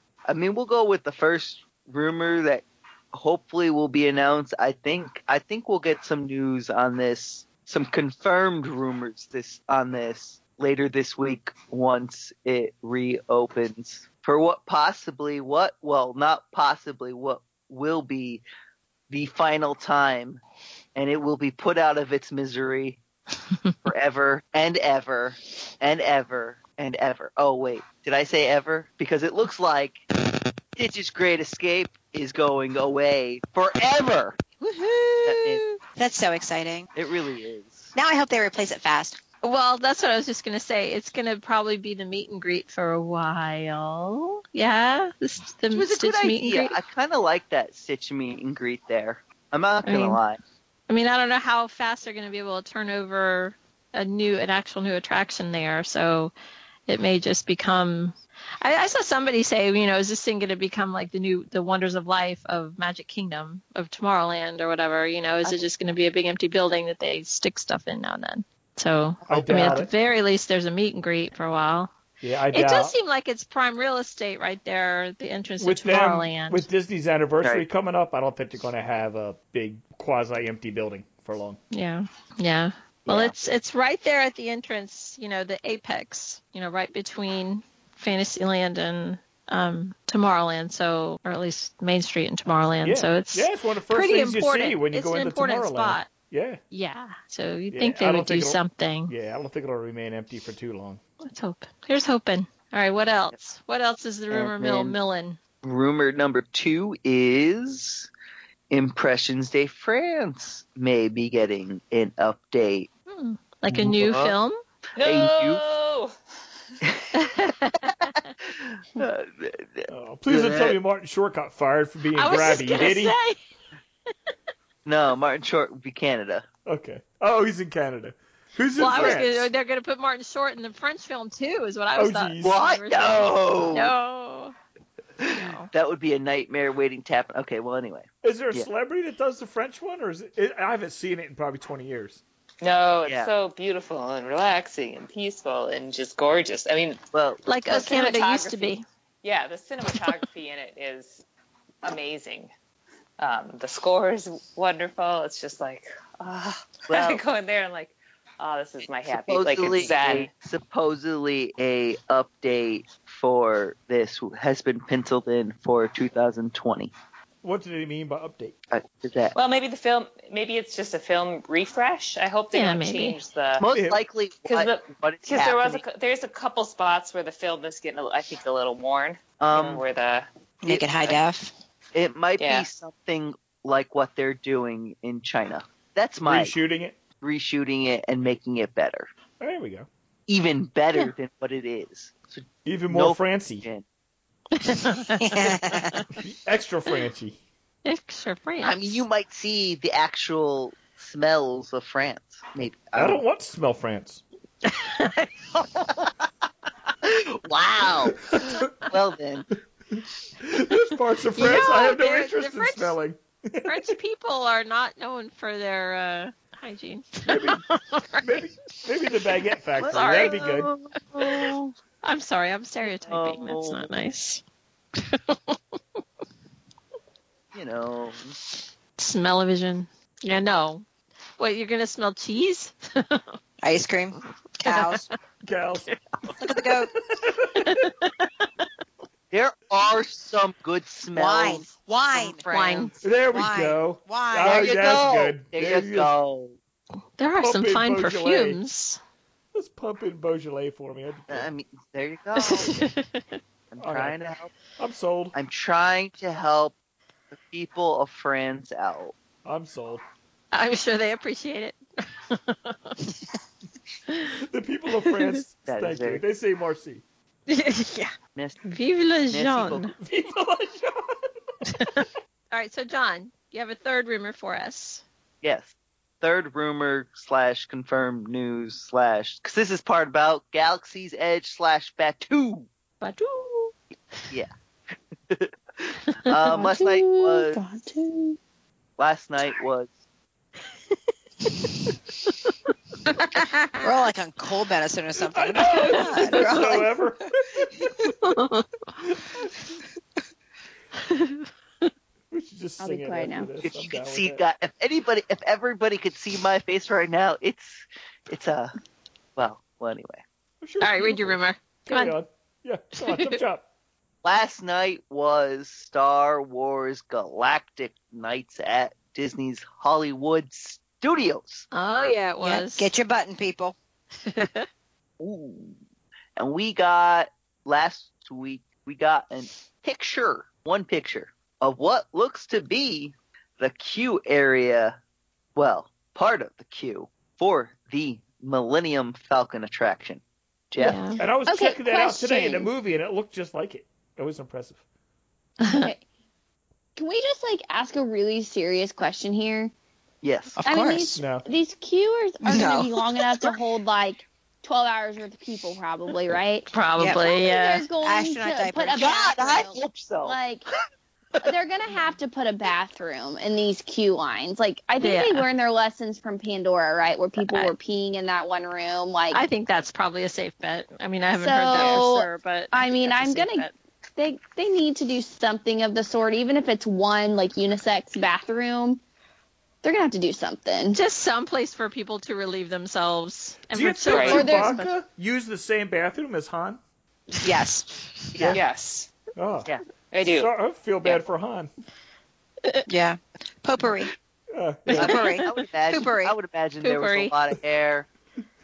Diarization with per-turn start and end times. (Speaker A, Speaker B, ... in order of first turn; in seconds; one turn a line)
Speaker A: 0.3-18.4
Speaker A: 19.1-20.4
Speaker A: 20.9-23.0
Speaker A: 23.9-30.1
Speaker A: 30.8-34.4
Speaker B: 34.6-36.9
Speaker A: 35.2-35.6
Speaker A: 37.0-37.9
Speaker B: 38.0-39.2
Speaker C: 39.4-46.8
Speaker A: 45.7-50.4
Speaker C: 49.8-50.2
Speaker C: 50.9-56.3
Speaker C: 56.9-71.9
Speaker A: 69.3-69.8
Speaker D: 69.3-69.9
Speaker D: 72.2-73.0
Speaker C: 72.5-76.7
Speaker D: 75.6-81.6
Speaker A: 77.4-77.7
Speaker C: 81.7-96.1
Speaker A: 83.1-83.5
Speaker D: 92.8-96.6
Speaker C: 96.7-99.1
Speaker D: 97.7-101.0
Speaker C: 101.2-105.4
Speaker A: 104.3-105.0
Speaker A: 105.6-108.1
Speaker A: 108.7-112.9
Speaker C: 113.1-114.6
Speaker A: 113.7-114.3
Speaker E: 115.0-116.1
Speaker A: 115.0-115.6
Speaker A: 116.8-117.3
Speaker C: 117.1-118.3
Speaker A: 118.4-120.8
Speaker D: 119.9-123.2
Speaker C: 122.2-123.4
Speaker A: 124.9-126.5
Speaker D: 126.7-129.5
Speaker C: 128.8-134.6
Speaker A: 128.9-129.2
Speaker D: 132.0-132.6
Speaker A: 132.4-133.9
Speaker A: 135.2-138.7
Speaker C: 135.3-135.7
Speaker D: 138.2-142.2
Speaker E: 142.6-147.0
Speaker A: 143.0-143.3
Speaker A: 147.1-147.4
Speaker C: 147.5-148.8
Speaker E: 147.7-151.2
Speaker E: 151.8-152.5
Speaker E: 153.2-160.3
Speaker A: 156.9-157.2
Speaker A: 159.1-166.9
Speaker D: 167.4-168.5
Speaker A: 168.7-169.3
Speaker E: 169.3-173.7
Speaker C: 172.5-173.2
Speaker A: 173.6-175.8
Speaker D: 173.7-174.0
Speaker E: 174.5-180.3
Speaker A: 179.4-179.8
Speaker B: 180.6-181.5
Speaker A: 180.7-181.2
Speaker A: 181.9-186.6
Speaker E: 182.4-182.7
Speaker D: 186.2-187.0
Speaker A: 187.2-189.1
Speaker D: 189.4-189.9
Speaker A: 190.3-193.8
Speaker D: 192.7-193.7
Speaker C: 194.6-196.1
Speaker B: 195.2-196.0
Speaker D: 196.2-197.4
Speaker C: 197.8-199.0
Speaker A: 198.6-203.2
Speaker D: 202.9-204.2
Speaker C: 204.7-205.4
Speaker A: 205.8-206.1
Speaker A: 207.0-208.3
Speaker D: 208.1-208.9
Speaker A: 208.9-209.5
Speaker D: 209.9-213.9
Speaker C: 211.3-213.0
Speaker C: 213.7-218.5
Speaker D: 217.3-217.6
Speaker D: 218.2-220.7
Speaker A: 219.8-221.8
Speaker C: 219.8-220.6
Speaker C: 221.2-221.5
Speaker C: 222.0-224.4
Speaker A: 222.9-223.9
Speaker C: 225.0-225.6
Speaker A: 227.5-228.4
Speaker C: 229.0-230.9
Speaker C: 231.4-233.3
Speaker B: 233.6-235.1
Speaker C: 234.7-235.1
Speaker D: 235.4-236.4
Speaker B: 236.4-236.9
Speaker D: 237.1-237.7
Speaker C: 237.6-238.7
Speaker A: 239.3-243.0
Speaker B: 241.1-242.4
Speaker C: 242.5-242.9
Speaker D: 243.0-246.2
Speaker B: 243.3-244.7
Speaker A: 244.4-246.6
Speaker C: 247.2-249.0
Speaker D: 247.4-248.6
Speaker D: 249.5-251.5
Speaker A: 251.3-252.8
Speaker C: 252.4-253.4
Speaker A: 253.7-254.5
Speaker D: 253.8-254.2
Speaker D: 254.8-255.3
Speaker A: 255.3-256.7
Speaker A: 257.3-259.2
Speaker D: 259.4-260.0
Speaker C: 260.5-263.2
Speaker D: 264.4-267.0
Speaker C: 265.0-265.4
Speaker A: 265.7-266.2
Speaker C: 267.5-268.1
Speaker C: 268.6-269.9
Speaker A: 269.3-269.9
Speaker D: 270.0-271.2
Speaker C: 271.7-275.0
Speaker A: 275.4-282.7
Speaker C: 283.0-283.8
Speaker A: 285.3-287.6
Speaker F: 286.5-288.4
Speaker A: 289.0-289.9
Speaker B: 293.8-296.9
Speaker D: 295.2-298.1
Speaker A: 296.3-296.8
Speaker C: 298.2-298.7
Speaker D: 299.0-299.6
Speaker C: 301.1-301.9
Speaker D: 302.3-304.4
Speaker F: 302.8-303.5
Speaker A: 303.6-308.7
Speaker A: 309.4-310.2
Speaker D: 310.6-313.6
Speaker C: 310.8-312.2
Speaker C: 312.9-313.4
Speaker A: 314.2-321.7
Speaker C: 321.7-322.9
Speaker B: 322.4-323.8
Speaker C: 324.3-324.7
Speaker A: 325.2-325.8
Speaker A: 326.4-335.0
Speaker A: 335.6-341.1
Speaker C: 340.8-341.2
Speaker D: 341.2-344.8
Speaker F: 341.5-342.7
Speaker C: 345.6-345.9
Speaker F: 345.7-346.0
Speaker F: 347.0-349.7
Speaker A: 350.2-350.6
Speaker B: 350.6-351.2
Speaker F: 350.6-360.7
Speaker D: 351.2-351.4
Speaker B: 352.4-353.5
Speaker C: 356.7-357.9
Speaker B: 357.0-357.4
Speaker B: 358.0-359.6
Speaker A: 359.0-360.4
Speaker F: 361.4-369.4
Speaker C: 365.0-365.5
Speaker C: 367.4-367.7
Speaker C: 369.3-373.7
Speaker F: 371.4-379.0
Speaker E: 371.7-372.0
Speaker F: 379.8-381.0
Speaker C: 380.9-384.8
Speaker D: 383.7-386.8
Speaker E: 384.1-384.4
Speaker F: 384.2-384.9
Speaker B: 387.4-388.1
Speaker A: 388.4-388.6
Speaker E: 388.5-389.1
Speaker D: 389.4-389.7
Speaker E: 390.1-390.5
Speaker D: 390.2-391.7
Speaker B: 392.9-394.1
Speaker D: 394.5-395.1
Speaker B: 394.9-396.4
Speaker A: 394.9-398.1
Speaker C: 395.0-395.4
Speaker C: 396.8-397.4